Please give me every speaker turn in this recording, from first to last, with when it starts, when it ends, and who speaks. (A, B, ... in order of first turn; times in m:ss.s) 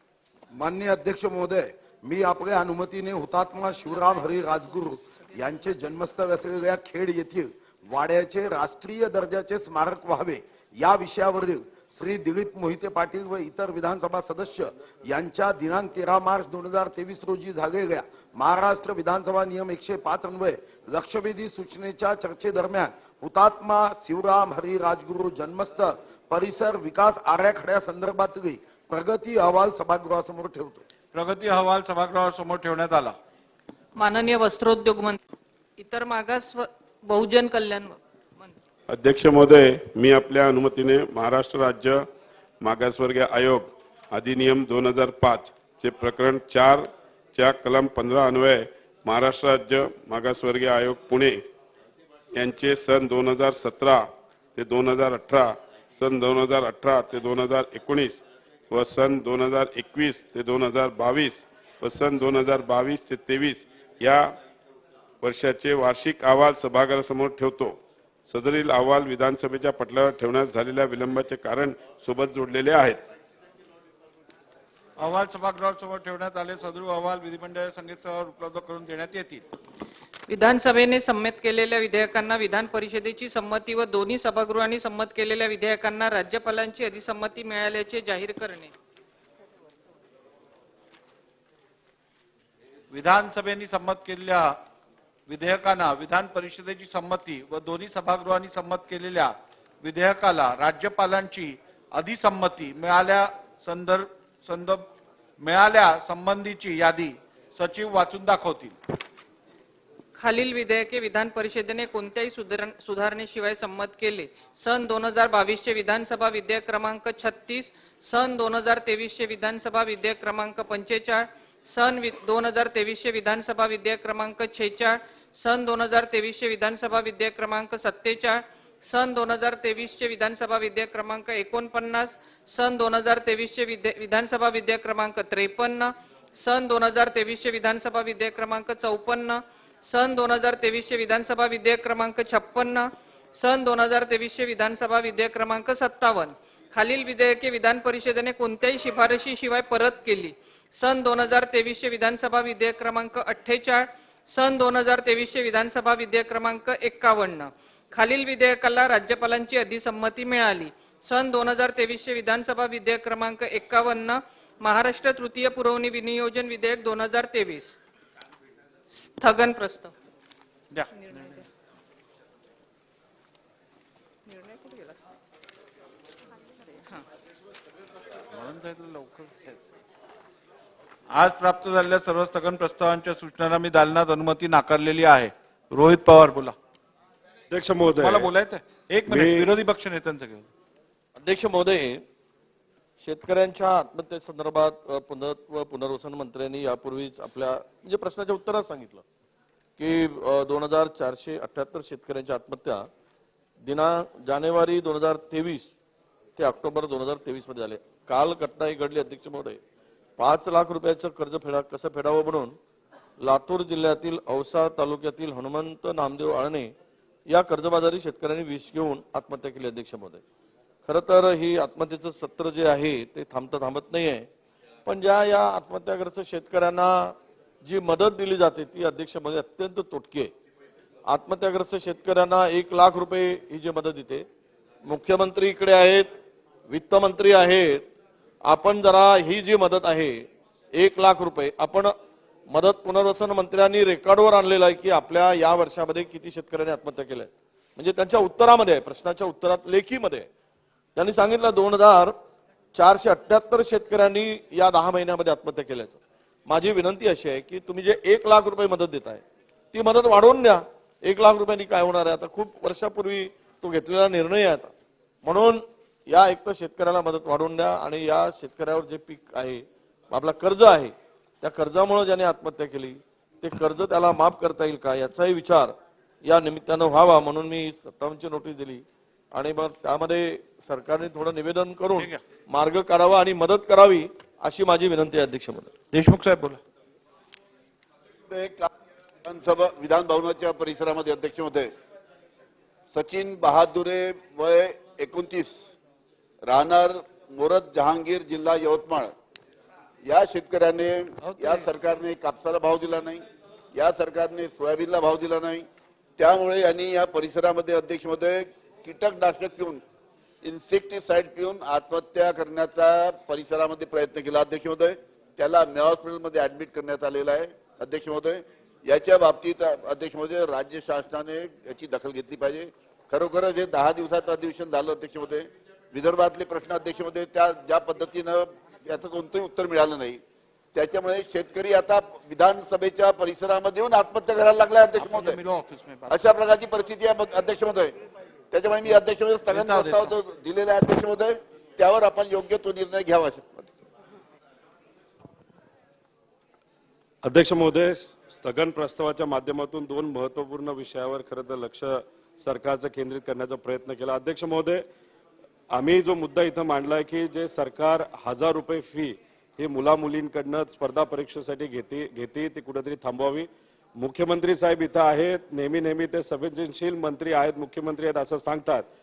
0:00.5-0:30.8 A
0:31.1-0:33.2 B
0:34.0-0:35.2 C
0:35.8-0:38.5 C
0:38.9-0:42.0 D
0:42.6-0:51.4 D
0:52.3-1:04.2 D
1:05.2-1:13.0 D
1:15.0-1:19.4 B
1:20.3-1:28.7 C
1:32.9-1:34.5 B
1:35.3-1:44.8 B
1:45.4-1:48.8 B
1:50.2-2:47.8 C
2:48.9-2:49.9 C
2:50.9-2:51.4 C
2:54.3-2:54.7 C
2:58.3-2:59.3 B
3:01.1-3:06.5 B
3:07.5-3:08.2 E
3:08.0-3:10.5 B
3:09.1-3:09.4 E
3:11.2-3:12.0 F
3:13.0-3:19.0 F
3:19.8-3:22.9 F
3:23.6-3:25.8 F
3:26.4-3:29.6 F
3:30.2-3:32.6 F
3:33.2-3:36.8 F
3:37.3-3:40.2 F
3:40.8-3:44.3 F
3:44.8-3:50.3 F
3:51.0-3:54.2 F
3:54.9-3:56.2 F
3:56.7-3:57.8 F
3:58.4-4:02.0 F
4:02.5-4:10.3 F
4:10.9-4:12.2 F
4:12.7-4:45.7 F
4:45.9-4:46.6 B
4:48.3-4:48.7 G
4:49.2-4:51.7 G
4:52.9-4:55.5 G
4:56.4-4:59.1 G
5:00.0-5:05.6 G
5:06.2-5:09.8 G
5:10.4-5:30.2 G
5:30.7-5:35.4 G
5:35.2-5:35.8 B
5:36.1-5:37.9 G
5:38.5-5:43.7 G
5:47.2-5:54.8 E
5:55.7-6:08.8 E